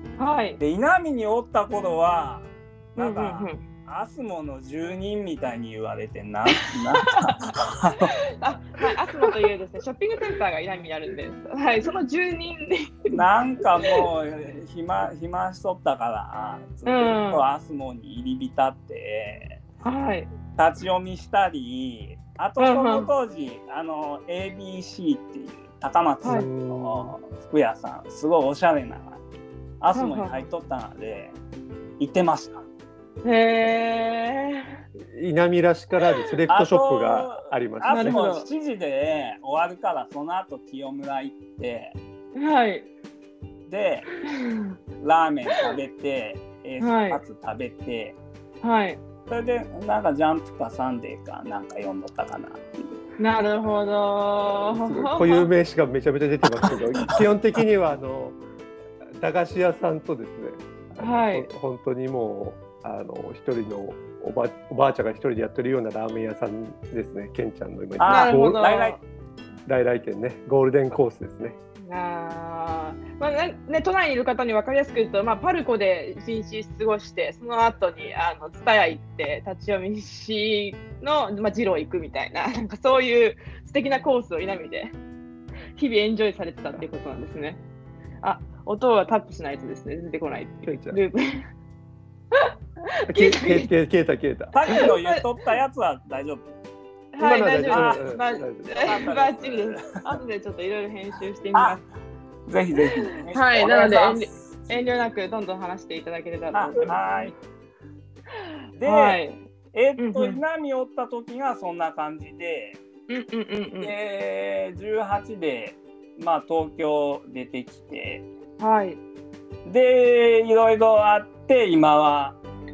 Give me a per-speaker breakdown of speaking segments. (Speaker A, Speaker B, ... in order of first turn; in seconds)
Speaker A: 0.2-0.6, 3.0-3.6, 6.7-7.3, 8.4-13.2, 13.8-14.0, 16.9-17.4, 19.8-20.3, 22.6-23.1, 29.9-30.4, 33.2-34.8, 37.9-38.5, 42.4-42.9, 44.3-44.7, 46.8-47.2, 48.6-49.0, 53.2-55.5, 61.0-61.5, 68.1-69.0, 71.8-84.9, 85.8-87.6, 88.2-91.5, 93.0-93.7, 94.7-95.2, 97.1-101.8, 103.0-107.3, 108.8-109.4, 110.0-110.4, 113.1-113.9, 118.6-119.0
Speaker B: 0.6-8.2, 13.1-19.6, 20.6-29.2, 29.8-31.4, 32.0-32.6, 36.5-42.0, 43.7-44.1, 45.0-48.2, 49.3-52.9, 68.0-69.0, 94.5-96.5, 97.7-98.0, 98.7-100.0, 101.5-101.8, 102.5-104.3, 106.5-107.3, 108.8-109.2, 109.7-112.8, 113.8-118.3, 119.7-122.4
Speaker C: 26.2-27.2, 35.0-38.2, 54.7-58.4, 59.2-68.7, 69.7-71.6, 90.7-91.0, 93.1-94.8, 97.2-98.9